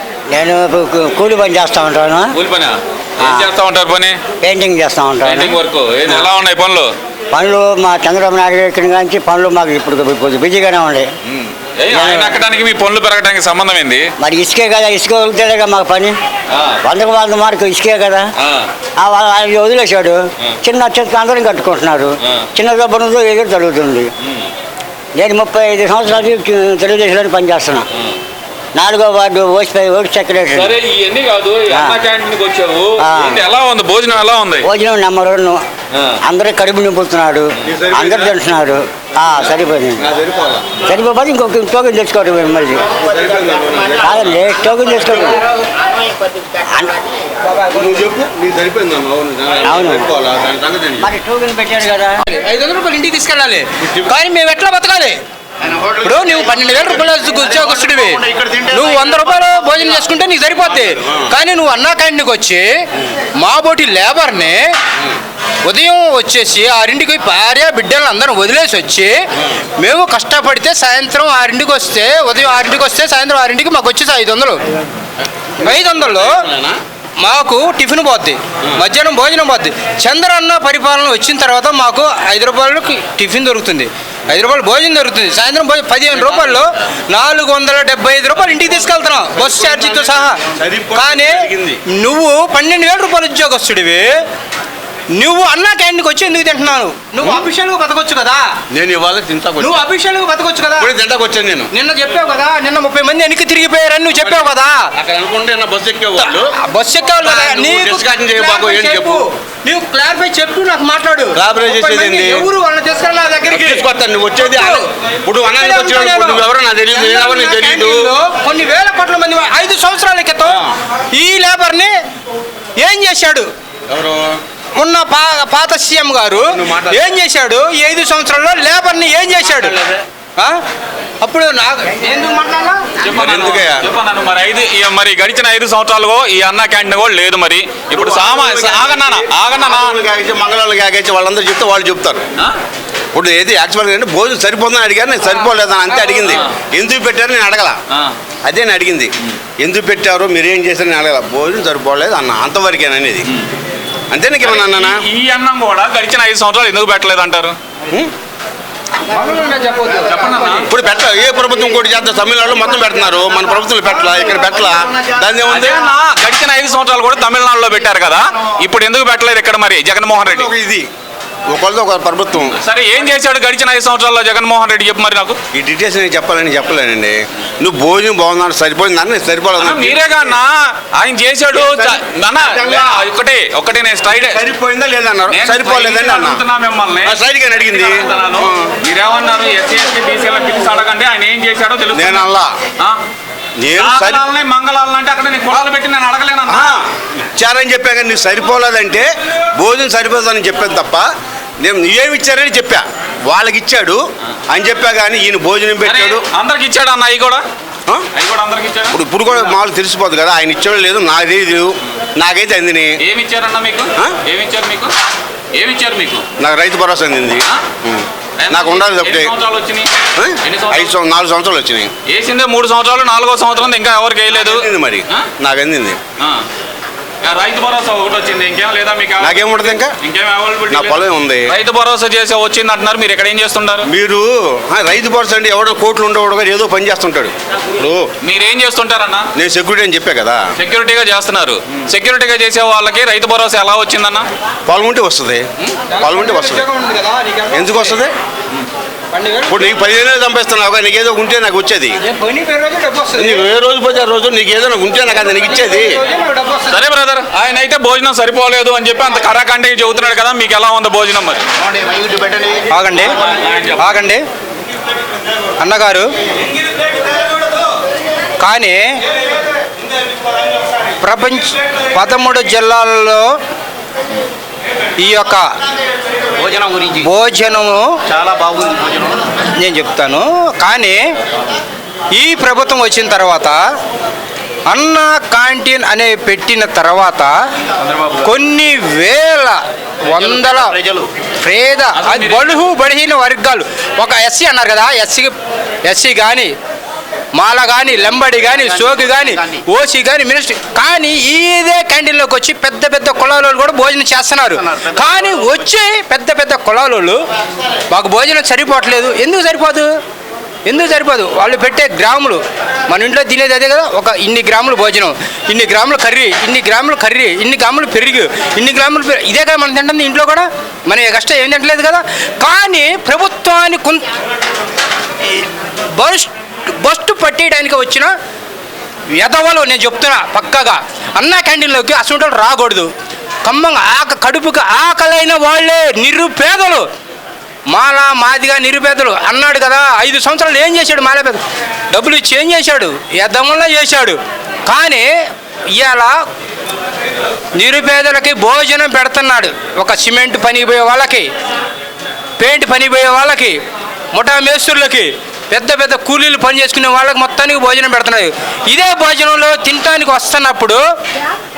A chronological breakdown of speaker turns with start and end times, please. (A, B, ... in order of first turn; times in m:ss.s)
0:00.3-0:02.3 A
0:02.3-0:04.2 B
0:03.2-0:03.5 A
0:04.4-0:06.3 A
0:05.2-0:06.9 B
0:07.3-0:11.1 A
0:11.2-0:14.1 B
0:11.9-0:12.5 A
0:14.2-0:16.2 A
0:16.5-0:16.8 B
0:16.8-0:18.3 A
0:18.4-0:18.7 B
0:19.0-0:24.1 A
0:25.2-0:27.9 A
0:28.7-0:30.8 A
0:30.5-0:34.7 B
0:31.7-0:32.0 A
0:33.0-0:33.4 A
0:34.6-0:35.6 A
0:36.2-0:40.1 A
0:37.6-0:38.3 C
0:40.0-0:40.8 C
0:40.8-0:42.9 A
0:43.0-0:44.3 C
0:44.0-0:45.4 A
0:45.1-0:45.4 C
0:46.5-0:47.0 A
0:47.7-0:51.1 C
0:49.6-0:50.1 A
0:51.0-0:52.2 A
0:52.2-0:55.2 D
0:53.8-0:54.1 C
0:55.6-1:00.2 E
0:56.0-1:02.7 D
1:03.4-1:04.7 D
1:05.6-1:09.2 D
1:09.7-1:14.6 D
1:15.6-1:16.4 D
1:16.0-1:16.8 C
1:17.2-1:30.4 D
1:26.2-1:26.6 C
1:29.3-1:31.8 C
1:30.9-1:34.2 D
1:35.1-1:38.5 D
1:38.7-1:39.8 C
1:39.6-1:40.9 D
1:40.8-1:41.7 C
1:41.7-1:44.9 D
1:44.1-1:46.5 C
1:46.2-1:54.8 D
1:47.2-1:49.2 C
1:51.3-1:52.5 C
1:53.5-1:58.1 C
1:55.4-2:01.9 D
2:02.8-2:03.5 D
2:03.9-2:04.4 C
2:04.7-2:09.8 D
2:06.5-2:07.0 C
2:11.2-2:12.9 D
2:13.0-2:20.0 B
2:13.1-2:13.8 C
2:17.9-2:22.2 C
2:23.1-2:27.8 C
2:28.4-2:33.2 C
2:34.1-2:35.0 C
2:34.4-2:37.6 B
2:39.0-2:40.7 D
2:40.1-2:40.7 B
2:40.7-2:45.8 C
2:45.4-2:50.5 B
2:50.1-2:50.9 C
2:51.5-2:52.5 C
2:52.6-2:55.4 B
2:55.5-3:00.2 C
2:59.6-3:04.4 B
3:01.5-3:03.0 C
3:04.1-3:06.4 C
3:05.3-3:12.3 B
3:07.0-3:08.7 C
3:11.9-3:12.5 C
3:13.6-3:14.2 C
3:13.7-3:16.7 B
3:16.5-3:16.8 C
3:17.3-3:21.0 C
3:21.6-3:26.2 C
3:25.8-3:27.4 B
3:28.1-3:29.5 B
3:28.9-3:32.9 C
3:33.0-3:34.9 B
3:35.5-3:36.2 B
3:36.4-3:39.3 C
3:38.4-3:39.9 B
3:40.2-3:41.9 C
3:40.4-3:41.0 B
3:42.0-3:45.3 B
3:44.3-3:46.0 C
3:47.2-3:53.9 B
3:49.2-3:49.9 C
3:50.7-3:51.5 C
3:53.8-3:58.0 C
3:58.2-3:59.2 B
3:59.4-4:00.4 C
4:00.6-4:04.3 B
4:04.7-4:06.6 C
4:05.9-4:08.0 D
4:07.5-4:08.1 C
4:09.1-4:09.7 D
4:09.5-4:12.0 C
4:12.0-4:13.4 D
4:13.2-4:15.9 C
4:15.2-4:16.8 D
4:16.7-4:21.4 B
4:21.6-4:23.0 E
4:22.7-4:23.1 D
4:23.0-4:24.0 B
4:23.8-4:24.2 D
4:25.6-4:26.1 D
4:28.4-4:28.9 D
4:31.0-4:33.3 D
4:35.0-4:35.5 D
4:36.4-4:37.1 E
4:37.0-4:38.0 D
4:38.1-4:39.2 E
4:39.5-4:41.0 D
4:42.1-4:43.6 D
4:44.7-4:47.3 D
4:47.8-4:48.3 E
4:48.2-4:50.8 D
4:50.0-4:51.1 E
4:51.4-4:55.3 D
4:51.9-4:52.6 B
4:55.8-4:56.5 D
4:57.3-5:07.2 D
4:58.3-4:59.6 E
5:04.5-5:05.6 E
5:07.9-5:09.9 D
5:10.6-5:24.1 D
5:25.3-5:28.1 D
5:29.1-5:32.9 D
5:33.4-5:36.8 D
5:37.7-5:45.1 D
5:45.7-5:46.2 D
5:47.5-5:51.3 D
5:52.4-5:53.6 D
5:54.1-6:00.8 D